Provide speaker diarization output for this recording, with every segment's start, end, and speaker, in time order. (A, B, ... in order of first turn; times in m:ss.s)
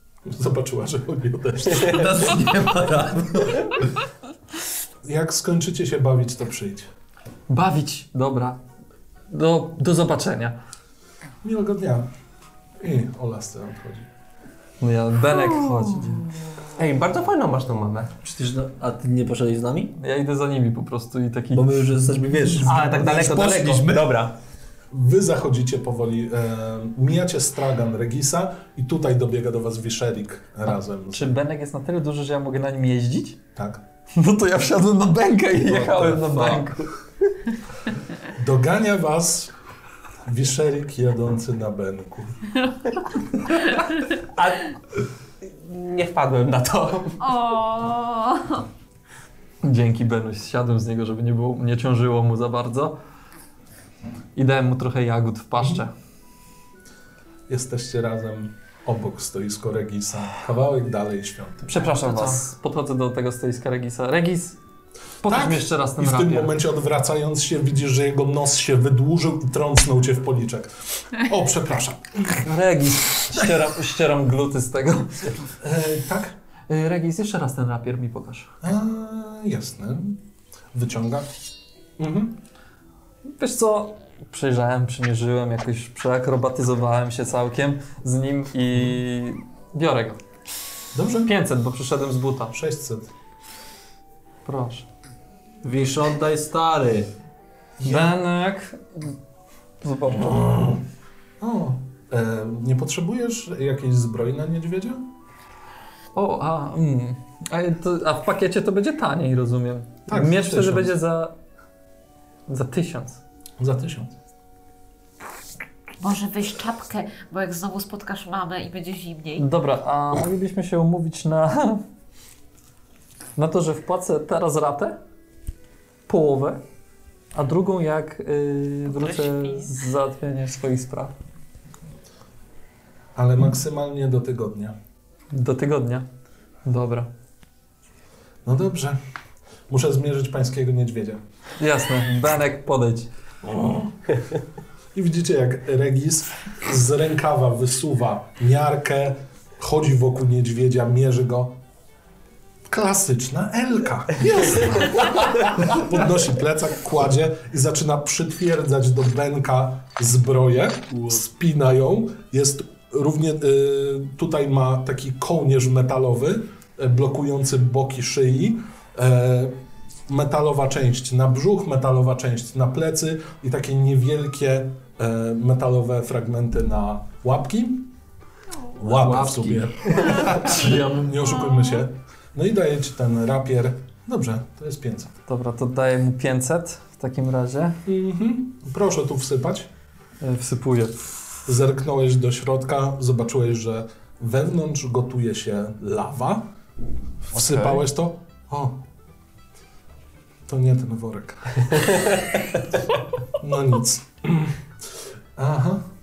0:00.2-0:02.3 A
0:01.8-0:03.8 B
0:05.0-0:06.9 A
0:07.5-0:08.6 C
0:09.3-0:10.6 C
0:11.4-0:12.1 A
0:12.8-0:14.1 A
0:14.8-0:16.3 C
0:16.8-0:18.1 D
0:18.2-0:19.9 B
0:20.0-0:21.8 C
0:21.5-0:24.1 B
0:22.6-0:24.3 D
0:24.9-0:31.3 A
0:31.1-0:33.4 C
0:33.5-0:33.8 A
0:34.1-0:36.9 C
0:35.6-0:36.6 B
0:38.3-0:39.5 A
0:40.2-0:42.4 A
0:44.2-0:44.7 D
0:45.4-0:47.2 D
0:47.2-0:48.6 E
0:49.6-0:52.9 C
0:54.3-0:55.9 C
0:57.5-1:02.2 A
1:01.6-1:04.6 C
1:05.2-1:06.5 C
1:05.2-1:12.5 A
1:12.4-1:15.5 C
1:15.6-1:16.4 A
1:16.7-1:18.5 C
1:18.6-1:20.2 A
1:20.7-1:21.3 A
1:22.0-1:22.4 A
1:23.4-1:30.2 C
1:30.9-1:31.3 A
1:31.2-1:32.5 C
1:32.5-1:33.1 A
1:34.4-1:34.8 C
1:35.6-1:37.1 B
1:37.8-1:38.2 A
1:37.8-1:39.1 C
1:39.8-1:40.8 C
1:40.3-1:40.7 A
1:41.4-1:45.0 A
1:46.1-1:51.3 C
1:50.1-1:50.9 A
1:52.5-1:53.2 C
1:53.6-1:54.1 A
1:56.0-1:59.5 E
1:59.4-2:01.8 C
2:03.4-2:05.0 C
2:06.1-2:06.6 C
2:07.3-2:11.1 C
2:08.9-2:09.7 E
2:13.1-2:14.7 A
2:15.3-2:16.0 C
2:16.6-2:17.1 C
2:18.4-2:19.0 A
2:19.7-2:21.2 A
2:21.6-2:23.1 C
2:23.4-2:23.9 A
2:24.9-2:31.5 A
2:32.7-2:49.6 A
2:40.9-2:41.2 B
2:50.1-2:57.9 A
2:58.7-3:05.1 A
2:58.9-3:01.1 B
3:05.2-3:07.8 C
3:07.8-3:09.7 A
3:10.2-3:11.0 C
3:11.4-3:16.5 A
3:17.3-3:18.8 A
3:17.3-3:17.8 C
3:20.5-3:22.2 A
3:23.4-3:24.5 A
3:25.4-3:25.8 A